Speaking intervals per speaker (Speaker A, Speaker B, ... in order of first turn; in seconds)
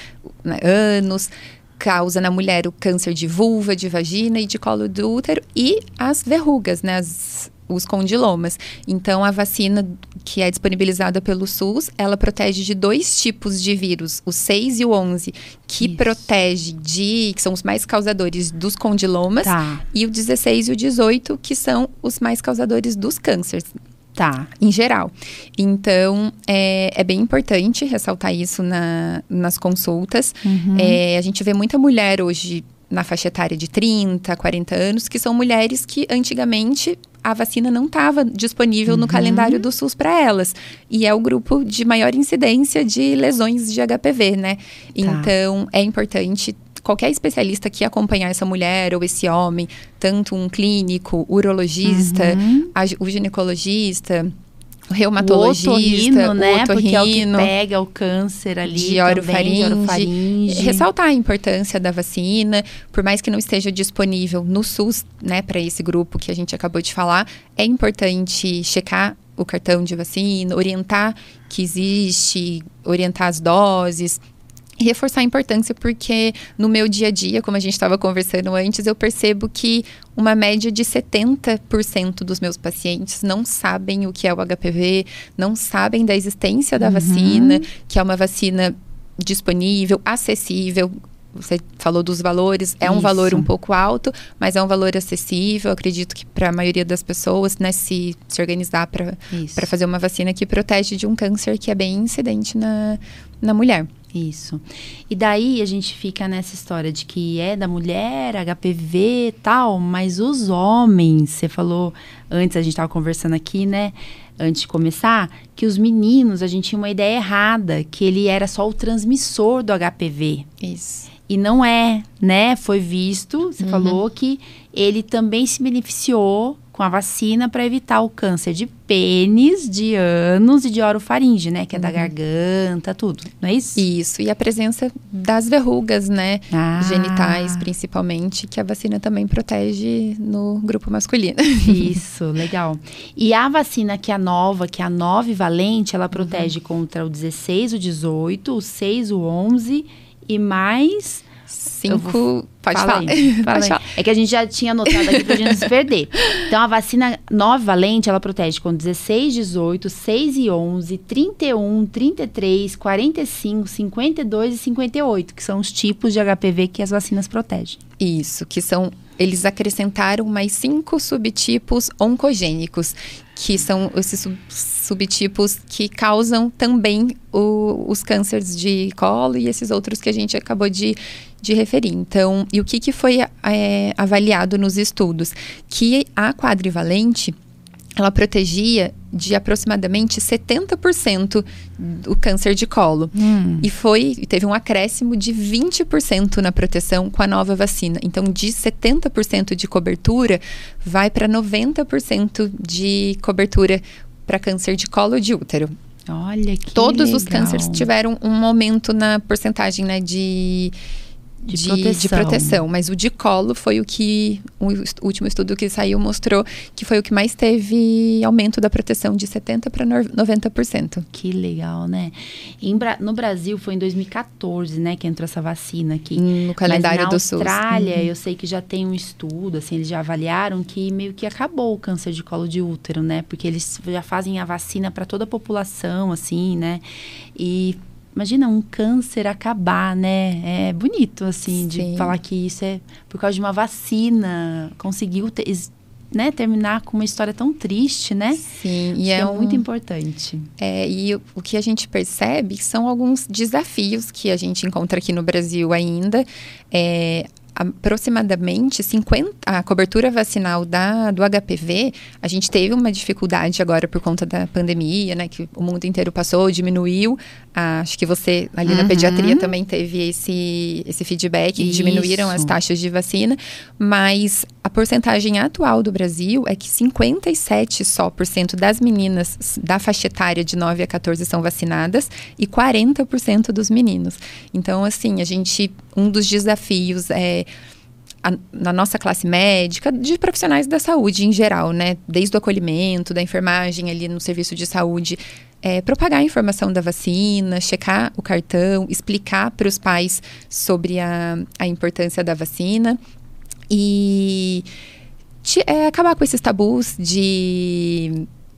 Speaker A: 0.4-23.7, 24.6-54.3, 54.9-57.5, 58.6-74.2, 74.8-103.9, 120.6-121.1, 123.6-124.0, 131.8-132.1, 133.8-142.0, 146.1-146.5, 151.5-153.9, 155.1-155.6, 168.0-187.3, 188.0-205.7, 206.7-210.7, 211.5-221.1, 226.2-228.1, 241.5-242.2, 248.4-249.6, 250.6-287.5, 288.2-303.0, 303.7-304.6, 305.4-308.3
Speaker B: 15.8-16.2, 19.4-19.8, 24.1-24.5, 30.4-31.0, 38.9-39.6, 45.0-45.3, 51.8-52.7, 55.2-60.9, 86.8-87.7, 92.8-93.5, 99.3-99.7, 104.1-120.5, 121.3-133.8, 136.5-137.7, 141.6-151.3, 151.9-167.8, 193.1-193.7, 206.1-207.9, 211.5-212.6, 221.1-236.8, 237.3-248.5, 249.0-250.5, 268.6-269.5, 271.6-272.5